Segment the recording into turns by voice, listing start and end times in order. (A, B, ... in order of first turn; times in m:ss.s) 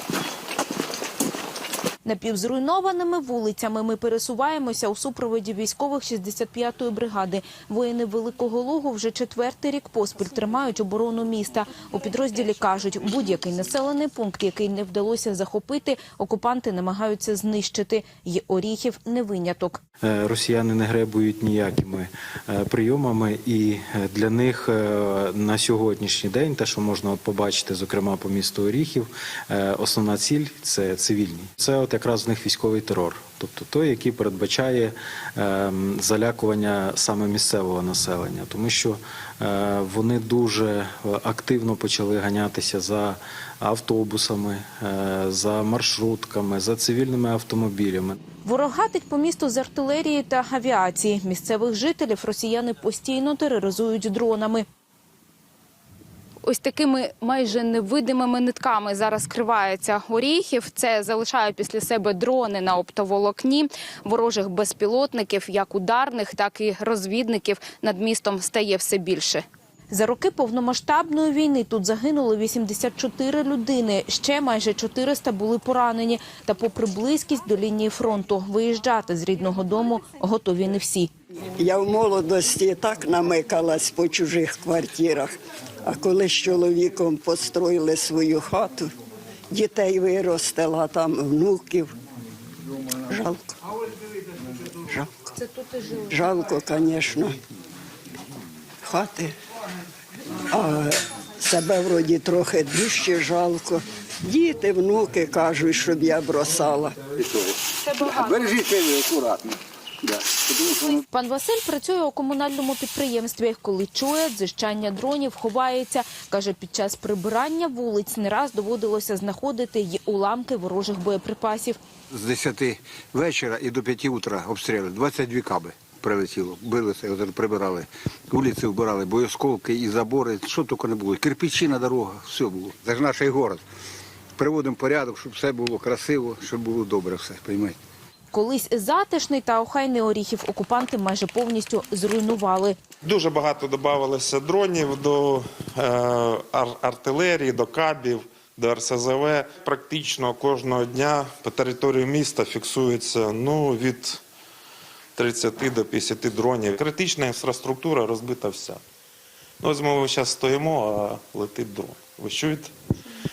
0:02.0-0:19.8 A
0:20.0-0:48.2 B
0:48.4-0:54.7 A
0:56.4-1:21.1 A
1:21.6-1:25.3 C
1:25.8-1:28.9 C
1:29.5-1:31.9 C
1:33.1-1:33.6 C
1:34.9-1:35.4 C
1:36.1-1:37.4 C
1:38.8-1:39.3 C
1:40.5-1:47.1 C
1:47.2-1:51.0 D
1:47.8-1:48.5 A
1:51.1-2:01.8 A
2:02.1-2:13.6 D
2:14.4-2:17.8 D
2:18.3-2:22.8 A
2:23.0-2:34.2 E
2:35.2-2:38.8 E
2:39.6-2:42.7 E